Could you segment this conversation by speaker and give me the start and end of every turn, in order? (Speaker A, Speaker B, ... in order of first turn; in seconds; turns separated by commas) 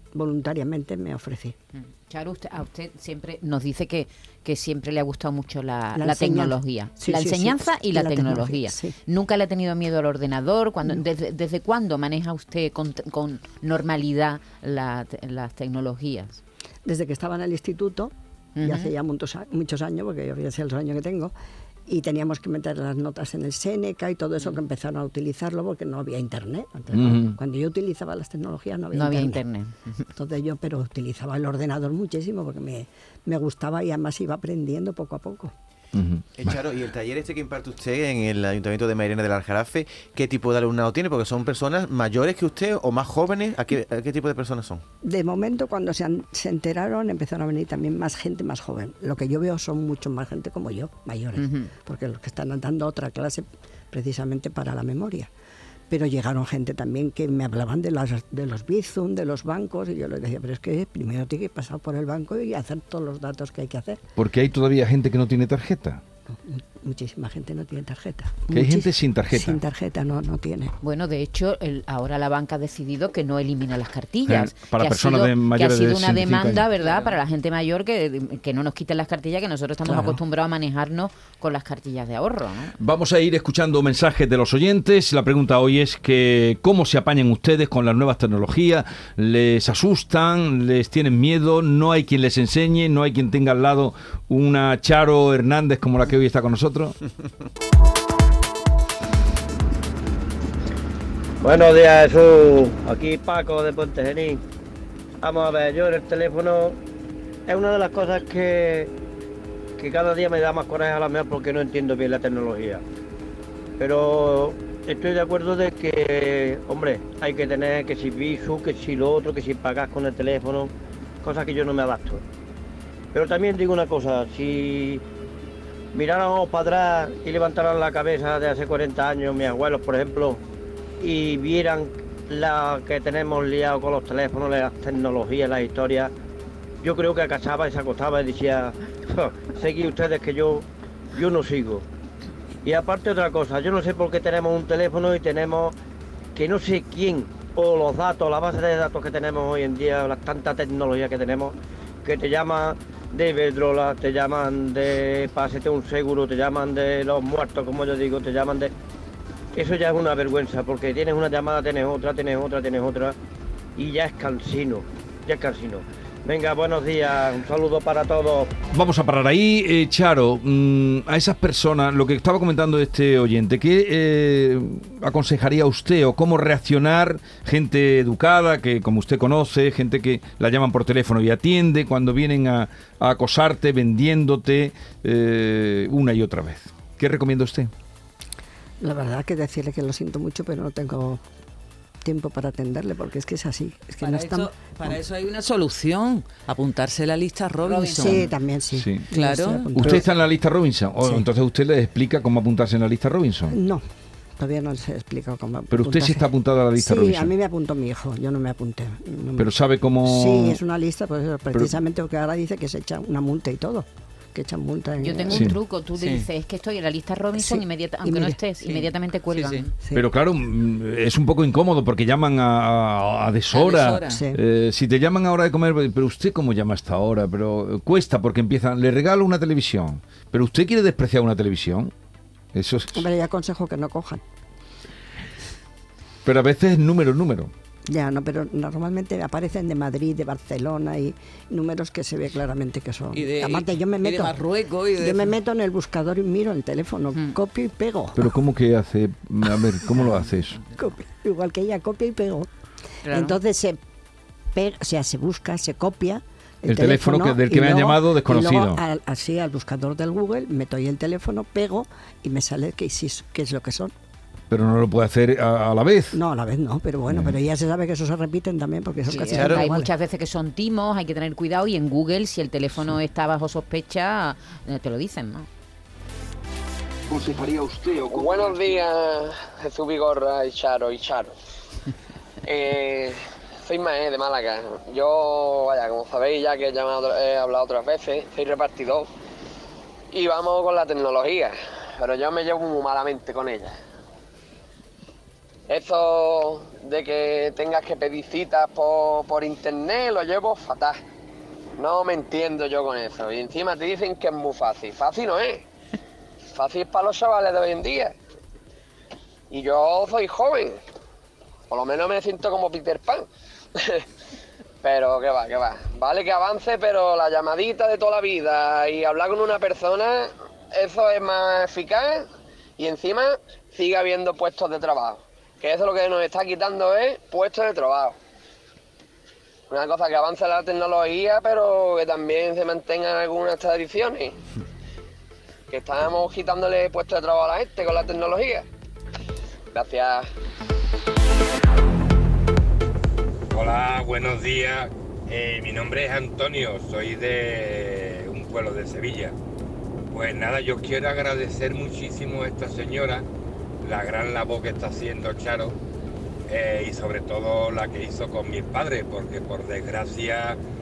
Speaker A: 0.1-1.6, Speaker B: 1.8-16.4, Speaker A: 6.0-8.9, Speaker A: 16.9-21.3, Speaker B: 18.6-18.9, Speaker A: 21.9-29.4, Speaker C: 26.9-27.4, Speaker B: 28.9-30.0, Speaker A: 30.1-35.5, Speaker C: 35.9-36.5, Speaker D: 36.4-44.8, Speaker A: 45.0-55.3, Speaker B: 51.4-51.7, Speaker A: 55.9-64.0, Speaker C: 64.2-66.0, Speaker A: 66.3-70.8, Speaker C: 68.5-69.6, Speaker B: 70.8-82.7, Speaker C: 74.3-76.6, Speaker E: 76.7-77.2, Speaker A: 79.9-80.2, Speaker C: 82.8-97.0, Speaker F: 101.4-104.4, Speaker F: 105.2-106.8, Speaker F: 107.5-108.9, Speaker F: 109.8-112.8, Speaker F: 113.8-122.2, Speaker F: 123.1-125.0, Speaker F: 125.9-130.4, Speaker F: 131.0-136.1, Speaker F: 136.8-141.8, Speaker F: 142.6-145.8, Speaker F: 146.4-158.7, Speaker F: 159.6-163.2, Speaker F: 163.8-168.5, Speaker C: 168.7-187.7, Speaker A: 188.8-191.2, Speaker A: 192.0-194.9, Speaker E: 194.0-198.3, Speaker B: 197.6-198.3, Speaker A: 198.0-200.1, Speaker C: 198.7-199.1, Speaker E: 199.1-200.0, Speaker C: 199.7-203.6, Speaker A: 203.5-203.9, Speaker A: 204.4-209.5, Speaker C: 205.7-207.3, Speaker C: 209.4-210.6, Speaker A: 210.0-215.6, Speaker B: 215.0-219.7, Speaker C: 215.3-215.6, Speaker E: 215.9-216.3, Speaker A: 217.3-218.4, Speaker E: 218.6-219.7, Speaker A: 219.8-220.1, Speaker C: 219.9-231.9, Speaker E: 223.5-224.2, Speaker A: 224.1-224.4, Speaker C: 232.5-233.1, Speaker A: 232.9-234.2, Speaker C: 236.2-237.5, Speaker A: 237.9-244.4, Speaker E: 243.1-245.4, Speaker A: 245.0-248.3, Speaker C: 248.2-250.6, Speaker A: 250.8-252.5, Speaker B: 253.1-253.4, Speaker A: 253.1-253.8, Speaker A: 254.5-263.9, Speaker C: 256.7-258.8, Speaker C: 264.5-266.2, Speaker A: 266.1-269.9, Speaker C: 267.1-267.4, Speaker B: 269.1-275.5, Speaker D: 269.3-269.6, Speaker G: 278.0-281.3, Speaker G: 282.4-289.1, Speaker G: 290.1-293.7, Speaker G: 295.7-301.0, Speaker G: 301.8-305.6, Speaker G: 306.6-308.1, Speaker G: 309.5-310.8, Speaker G: 311.7-313.2, Speaker G: 314.8-322.2, Speaker G: 322.8-328.1, Speaker G: 329.7-334.3, Speaker G: 335.7-338.6, Speaker G: 339.7-340.2, Speaker H: 343.5-349.4, Speaker H: 350.1-353.2, Speaker H: 353.8-355.8, Speaker H: 356.5-360.6